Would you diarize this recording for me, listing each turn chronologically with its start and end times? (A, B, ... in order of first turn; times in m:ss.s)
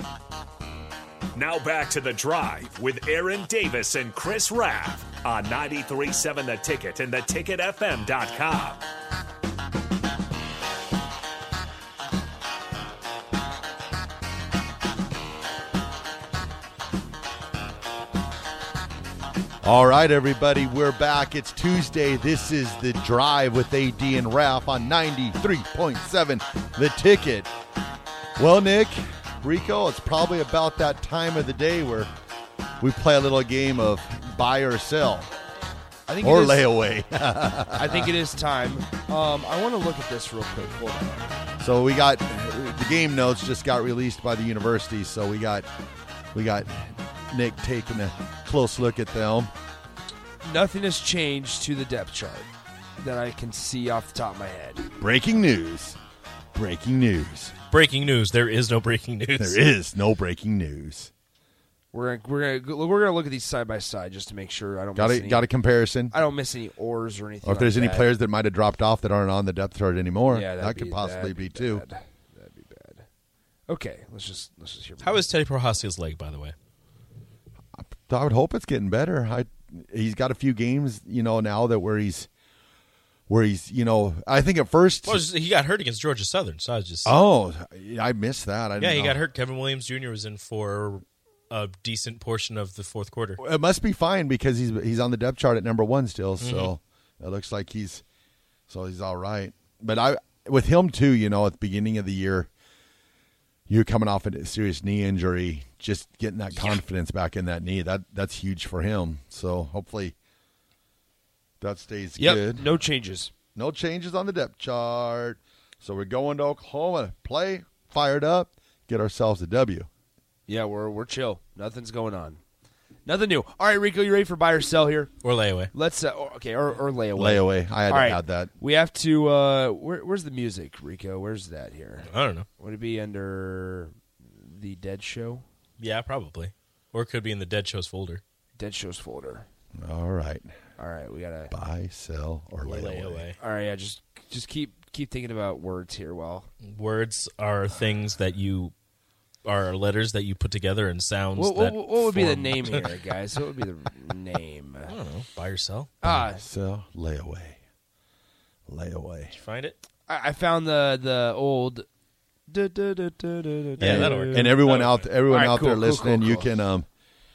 0:01.4-0:08.8 A
0:19.6-0:27.5 B
0:28.4-0:32.1 B
0:32.8-0:35.3 B
0:36.1-0:36.6 C
0:36.1-0:38.2 B
0:37.7-0:41.3 C
0:41.6-0:45.7 B
0:46.3-0:49.5 B
0:50.4-0:54.9 C
0:55.0-0:56.0 B
0:56.5-0:57.5 B
0:57.7-0:59.6 D
0:59.4-1:01.1 B
1:01.9-1:05.5 C
1:04.9-1:06.2 B
1:06.1-1:08.1 C
1:07.4-1:11.8 B
1:10.3-1:13.0 C
1:13.7-1:15.2 C
1:15.0-1:16.5 D
1:17.8-1:22.3 B
1:23.3-1:25.2 B
1:25.0-1:27.1 D
1:27.0-1:29.2 B
1:28.8-1:33.4 D
1:33.4-1:38.0 B
1:36.4-1:36.7 D
1:38.7-1:42.5 B
1:43.7-1:50.1 B
1:51.6-1:52.7 B
1:52.2-1:53.3 C
1:53.5-1:59.9 B
2:00.5-2:02.4 C
2:03.0-2:05.1 C
2:05.2-2:05.7 D
2:05.7-2:15.4 C
2:07.1-2:08.5 B
2:12.1-2:12.4 D
2:15.8-2:18.2 D
2:18.6-2:19.4 C
2:19.8-2:20.5 B
2:20.8-2:21.5 C
2:21.5-2:23.2 B
2:22.6-2:23.4 D
2:23.4-2:26.5 C
2:26.6-2:28.7 D
2:29.4-2:32.8 D
2:31.3-2:34.9 C
2:34.9-2:36.1 D
2:36.0-2:36.4 C
2:36.0-2:37.6 B
2:38.7-2:39.3 B
2:39.3-2:39.7 D
2:40.1-2:41.8 C
2:42.5-2:44.6 C
2:43.8-2:45.1 D
2:43.8-2:46.9 B
2:45.3-2:46.5 C